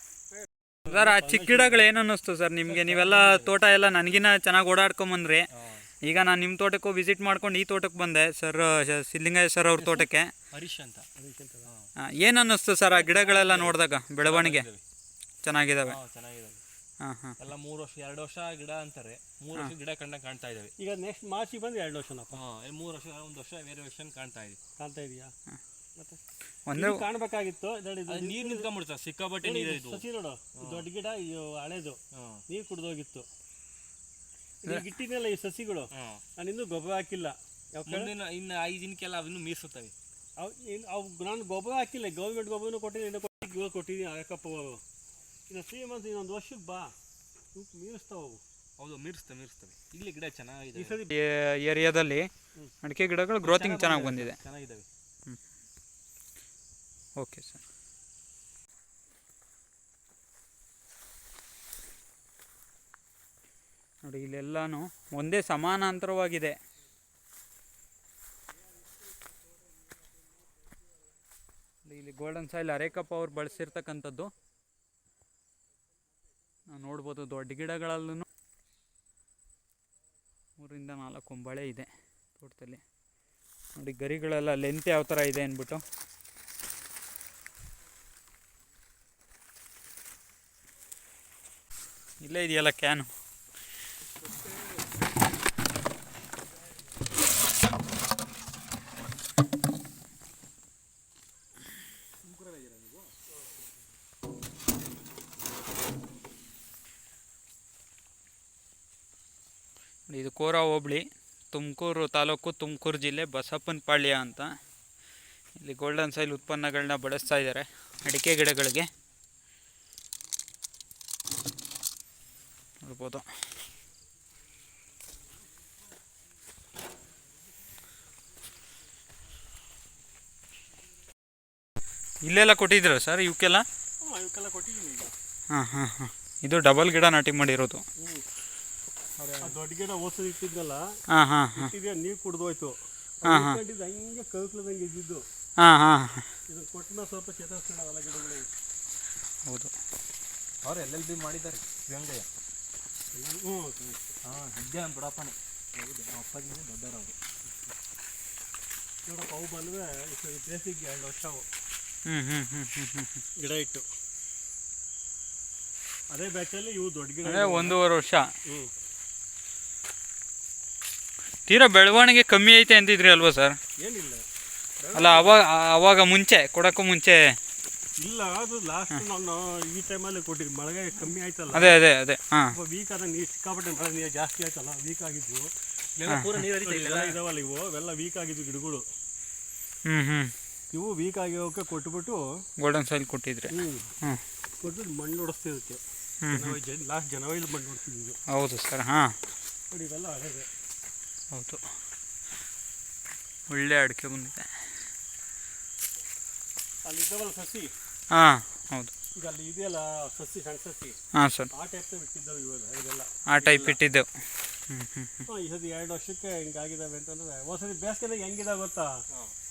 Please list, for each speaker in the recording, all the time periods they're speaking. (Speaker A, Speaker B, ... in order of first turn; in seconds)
Speaker A: 0.3-1.8, 11.2-11.7, 20.8-22.4, 24.8-25.3, 26.7-28.7, 29.4-33.3, 34.6-38.1, 40.4-44.8, 45.5-46.9, 47.5-48.4, 50.7-51.1, 134.0-135.1, 138.0-138.2, 139.2-140.8, 141.5-145.2, 146.5-148.5, 153.1-154.0, 159.1-161.5, 163.4-163.8, 166.1-167.8, 168.4-168.7, 173.8-174.2, 174.8-175.4, 178.0-181.8, 182.5-185.5, 186.5-188.8, 190.7-192.2, 193.5-193.9, 194.6-198.2, 199.7-200.5, 206.8-207.7, 209.1-211.0, 211.5-213.8, 215.3-218.9
Speaker B: 0.9-5.5, 6.0-10.3, 12.0-14.7, 15.4-16.0, 17.0-17.4, 26.7-27.0, 51.1-52.3, 52.8-54.4, 57.2-57.6, 64.0-66.5, 71.8-74.3, 76.7-78.2, 80.6-82.8, 83.8-85.8, 92.2-93.1, 110.1-114.5, 115.6-118.9, 122.8-123.3, 132.2-133.6, 135.5-137.8, 141.1-141.7, 143.2-143.6, 145.6-146.3, 149.4-149.7, 162.1-163.2, 167.2-168.3, 171.5-173.6, 174.9-177.3, 181.5-182.6, 186.1-186.4, 189.8-190.3, 192.6-194.2, 196.2-196.6, 198.3-199.2, 201.3-201.6, 203.5-204.5, 208.1-208.9, 211.1-211.5, 213.3-214.1, 214.7-215.2
Speaker C: 2.7-3.5, 5.5-5.8, 10.5-11.1, 12.9-14.8, 15.8-16.6, 17.4-20.7, 22.3-24.6, 28.1-30.0, 30.6-30.9, 32.1-32.4, 35.9-36.2, 37.9-39.9, 48.8-51.0, 53.4-54.9, 102.2-103.1, 150.6-152.3, 154.2-157.1, 186.0-187.2